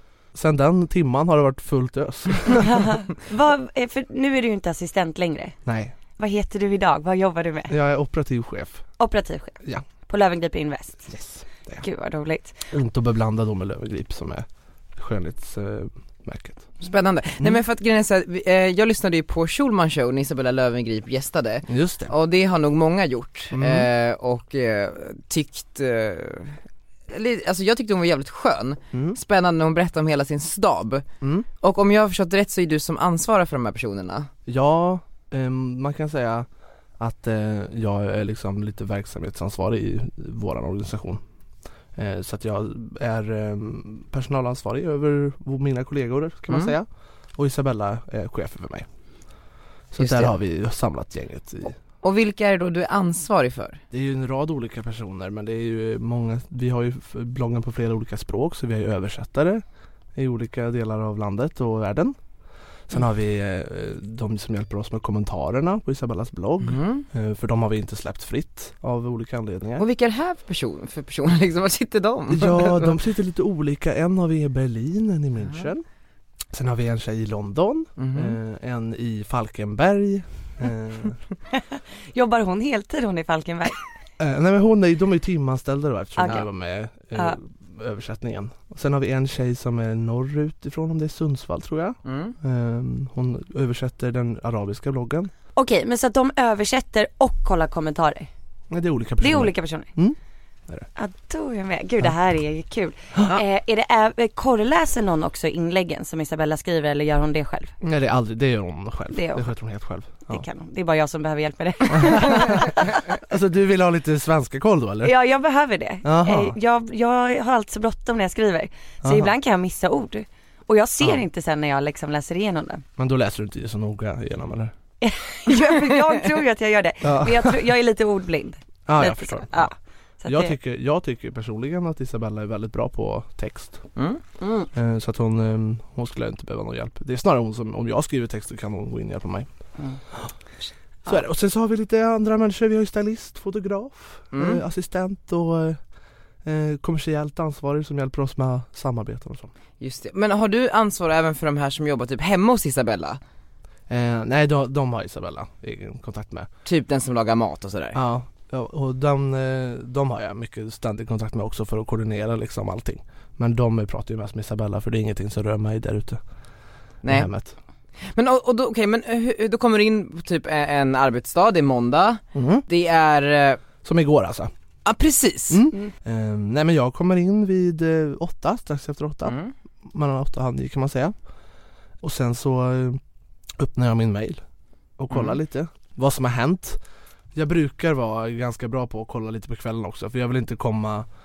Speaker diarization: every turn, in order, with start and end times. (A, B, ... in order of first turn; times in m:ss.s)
0:00.3-0:02.9 A
0:02.6-0:05.6 B
0:05.7-0:06.0 A
0:06.2-0:07.8 B
0:07.7-0:08.9 A
0:09.0-0:11.1 B
0:11.1-0:11.8 A
0:11.8-0:12.6 B
0:12.7-0:16.7 A
0:16.8-0:26.6 C
0:21.7-0:22.1 A
0:23.5-0:23.9 A
0:27.1-0:31.0 C
0:28.9-0:29.2 A
0:31.6-0:34.3 C
0:34.5-0:36.5 A
0:37.0-0:41.2 A
0:42.0-0:48.9 A
0:46.5-0:46.8 C
0:49.9-0:51.8 A
0:50.0-0:50.3 C
0:52.0-0:53.8 C
0:53.9-0:59.6 A
1:00.2-1:02.2 A
1:02.9-1:09.8 A
1:06.6-1:07.1 C
1:09.8-1:12.9 C
1:12.3-1:15.8 A
1:16.5-1:21.2 A
1:18.0-1:18.4 C
1:22.1-1:23.8 B
1:24.2-1:35.3 A
1:26.2-1:26.5 B
1:32.0-1:32.4 C
1:35.6-1:38.3 B
1:38.7-1:40.2 A
1:39.2-1:39.9 B
1:41.0-1:47.7 B
1:43.2-1:43.4 A
1:47.8-1:50.4 A
1:49.1-1:49.5 B
1:50.3-1:52.9 B
1:51.9-1:55.1 A
1:55.0-2:02.8 B
1:56.0-1:56.6 A
1:59.0-1:59.3 A
2:03.0-2:04.7 A
2:05.0-2:10.6 B
2:07.0-2:07.7 A
2:08.9-2:09.7 A
2:10.3-2:13.9 A
2:14.0-2:14.2 C
2:14.8-2:19.5 A
2:21.1-2:25.8 A
2:24.3-2:24.6 C
2:26.4-2:29.5 A
2:29.8-2:33.2 C
2:33.9-2:36.5 A
2:36.6-2:38.0 C
2:38.0-2:46.2 A
2:47.0-2:47.3 C
2:47.1-2:47.6 A
2:48.0-2:53.6 C
2:52.4-2:52.6 A
2:53.8-2:54.5 A
2:54.8-2:55.7 C
2:55.5-2:59.4 A
2:59.2-2:59.5 C
2:59.9-3:01.1 A
3:02.0-3:03.0 A
3:03.6-3:04.4 A
3:05.0-3:06.8 A
3:05.1-3:05.4 C
3:07.4-3:11.1 A